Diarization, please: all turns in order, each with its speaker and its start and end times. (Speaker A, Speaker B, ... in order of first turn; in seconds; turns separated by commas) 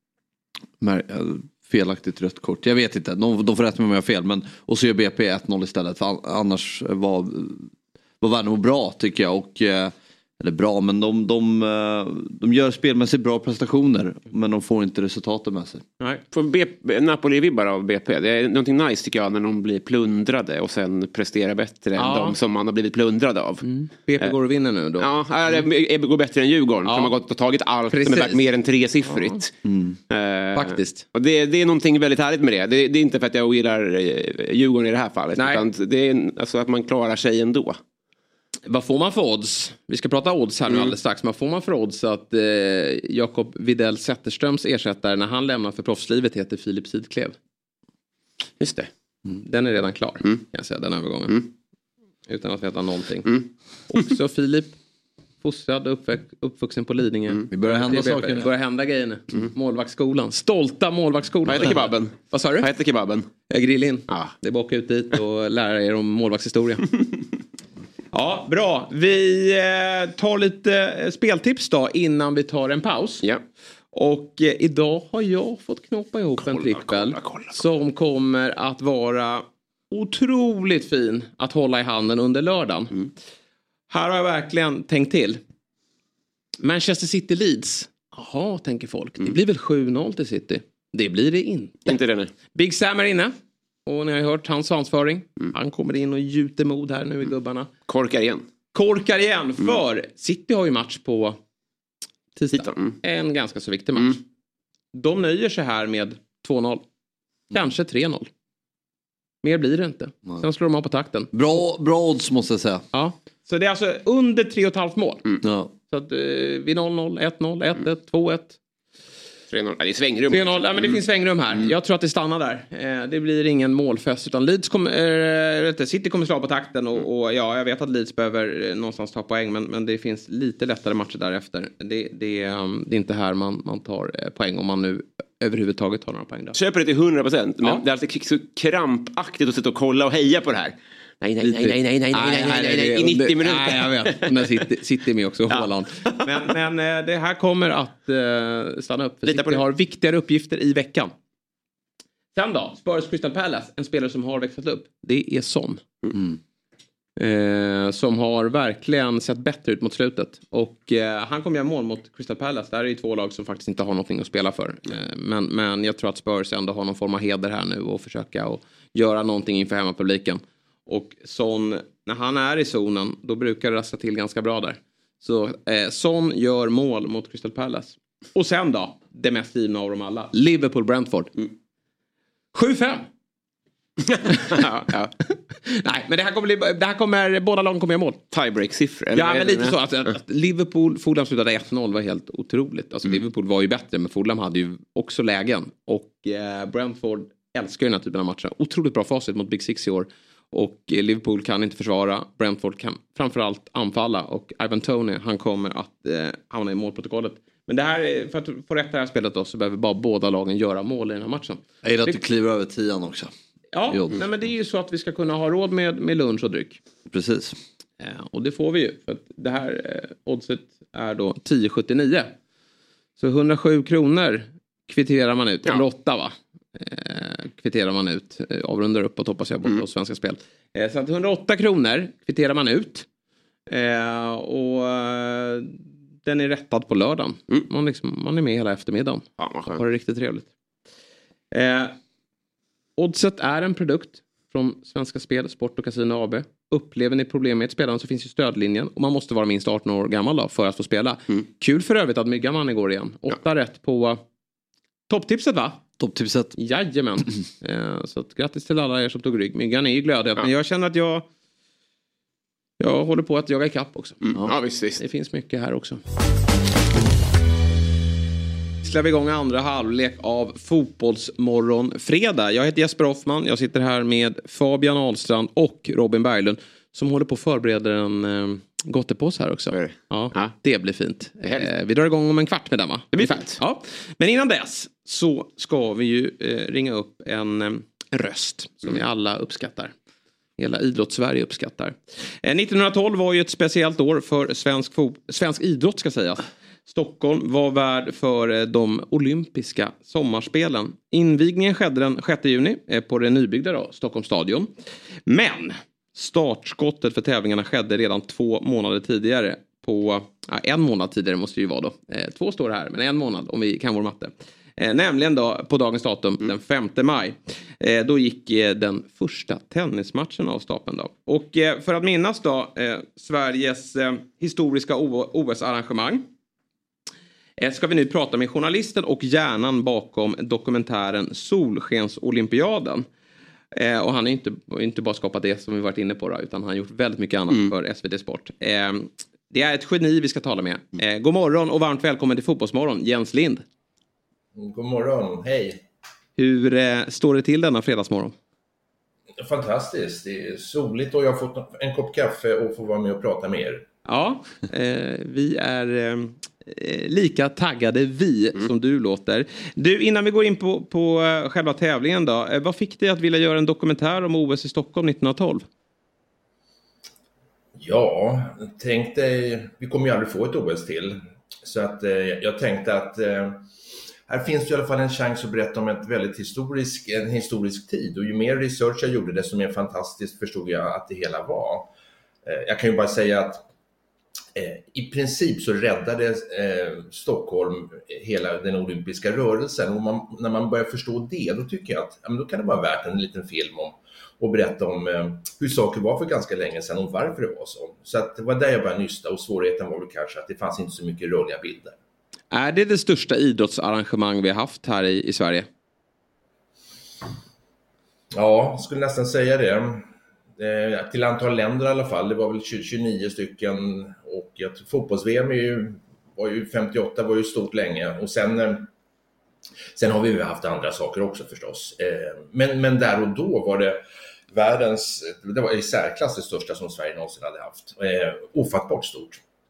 Speaker A: 0.8-15.8, Speaker B: 16.3-23.6, Speaker C: 22.0-22.4, Speaker C: 23.6-25.6, Speaker B: 25.0-29.6, Speaker C: 26.9-27.1, Speaker C: 27.9-28.4, Speaker C: 29.1-29.4, Speaker A: 29.6-30.0, Speaker B: 30.1-37.8, Speaker C: 30.5-31.0, Speaker C: 35.4-35.6, Speaker C: 38.7-47.4, Speaker B: 40.7-40.9, Speaker B: 48.6-48.9, Speaker C: 49.4-51.4, Speaker C: 52.3-53.4, Speaker C: 53.9-54.8, Speaker C: 55.4-62.7, Speaker A: 57.5-58.5, Speaker B: 61.5-63.3, Speaker C: 63.5-66.9, Speaker C: 68.1-73.2, Speaker C: 73.9-82.9, Speaker B: 76.4-77.6, Speaker C: 83.9-85.4, Speaker C: 86.6-92.0, Speaker B: 91.8-92.3, Speaker C: 92.5-93.3, Speaker C: 93.8-97.7, Speaker B: 97.9-98.4, Speaker C: 98.7-101.4, Speaker C: 102.3-104.2, Speaker B: 102.5-103.0, Speaker C: 104.9-106.8, Speaker C: 107.5-108.3, Speaker C: 109.4-111.3, Speaker A: 111.3-112.8, Speaker C: 112.9-115.2, Speaker A: 115.4-115.7, Speaker C: 115.9-118.6, Speaker B: 119.5-121.0, Speaker C: 120.3-136.6, Speaker B: 136.5-144.6, Speaker C: 141.4-151.1, Speaker B: 149.2-149.6, Speaker C: 152.3-155.8, Speaker A: 156.1-156.4, Speaker C: 157.2-181.3, Speaker C: 182.5-183.1, Speaker B: 184.0-185.1, Speaker C: 184.3-184.7, Speaker C: 185.6-188.2, Speaker B: 188.3-189.8, Speaker C: 189.1-212.2, Speaker A: 211.8-213.3, Speaker C: 213.7-216.8, Speaker A: 213.9-214.2, Speaker A: 217.1-217.6, Speaker C: 218.0-222.3, Speaker C: 223.2-233.1, Speaker C: 233.7-240.5, Speaker B: 239.4-239.8, Speaker C: 241.5-241.9, Speaker C: 243.0-254.2, Speaker C: 255.1-255.8, Speaker A: 256.0-256.6, Speaker C: 256.6-261.2, Speaker C: 262.8-264.2, Speaker B: 264.2-265.0, Speaker C: 265.0-266.0, Speaker C: 268.8-289.9, Speaker B: 279.7-280.5, Speaker B: 283.1-283.6, Speaker C: 290.6-304.7, Speaker C: 305.3-326.2, Speaker C: 327.6-333.0, Speaker C: 333.7-343.6, Speaker D: 344.6-345.8, Speaker C: 346.4-348.3, Speaker D: 349.4-353.8, Speaker C: 354.0-365.6, Speaker D: 367.8-373.6, Speaker D: 374.3-381.9, Speaker D: 382.4-383.6, Speaker D: 384.6-401.9, Speaker C: 402.5-405.7, Speaker D: 408.3-418.9, Speaker D: 419.9-424.0, Speaker D: 424.5-429.4